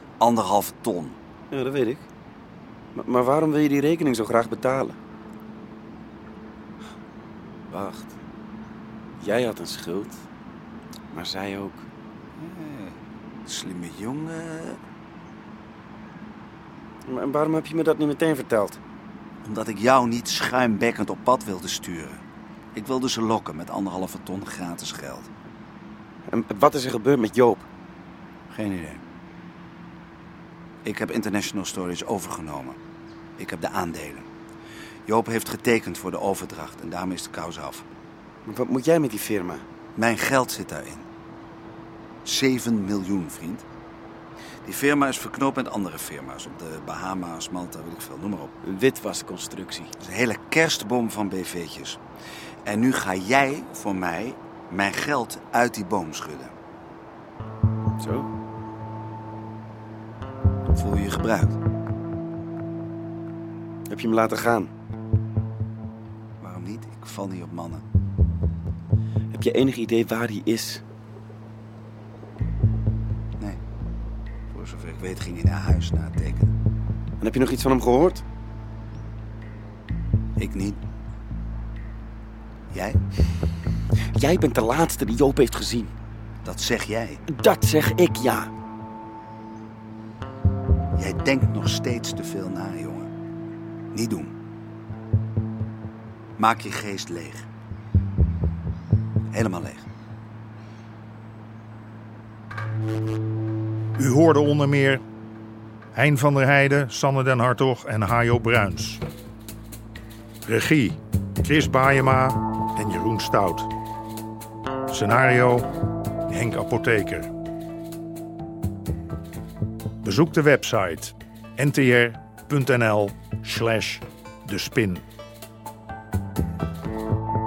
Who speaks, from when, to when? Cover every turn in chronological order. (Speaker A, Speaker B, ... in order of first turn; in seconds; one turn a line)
Speaker A: 0.2-1.2
Speaker B: 1.5-2.1
Speaker B: 3.0-5.0
Speaker B: 7.7-8.2
Speaker B: 9.2-10.2
Speaker B: 11.1-11.9
Speaker A: 12.4-14.8
Speaker B: 17.1-18.8
Speaker A: 19.4-22.2
Speaker A: 22.7-25.3
Speaker B: 26.3-27.7
Speaker A: 28.5-29.0
Speaker A: 30.8-32.8
Speaker A: 33.4-34.3
Speaker A: 35.1-37.9
Speaker B: 38.5-39.6
Speaker A: 40.0-41.1
Speaker A: 42.2-43.6
Speaker A: 44.6-48.5
Speaker B: 48.6-49.9
Speaker A: 50.0-52.0
Speaker A: 52.6-56.5
Speaker B: 58.0-58.3
Speaker A: 60.7-61.6
Speaker B: 63.9-64.7
Speaker A: 66.4-67.8
Speaker B: 69.3-70.8
Speaker A: 74.5-76.5
Speaker B: 77.2-78.2
Speaker A: 80.4-80.8
Speaker A: 82.7-83.0
Speaker B: 84.1-85.9
Speaker A: 86.4-87.2
Speaker B: 87.3-88.5
Speaker A: 91.0-93.1
Speaker A: 93.9-94.3
Speaker A: 96.4-97.5
Speaker A: 99.3-99.9
Speaker C: 104.0-105.0
Speaker C: 105.9-109.0
Speaker C: 110.4-113.7
Speaker C: 114.9-115.7
Speaker C: 116.3-117.3
Speaker C: 120.0-125.0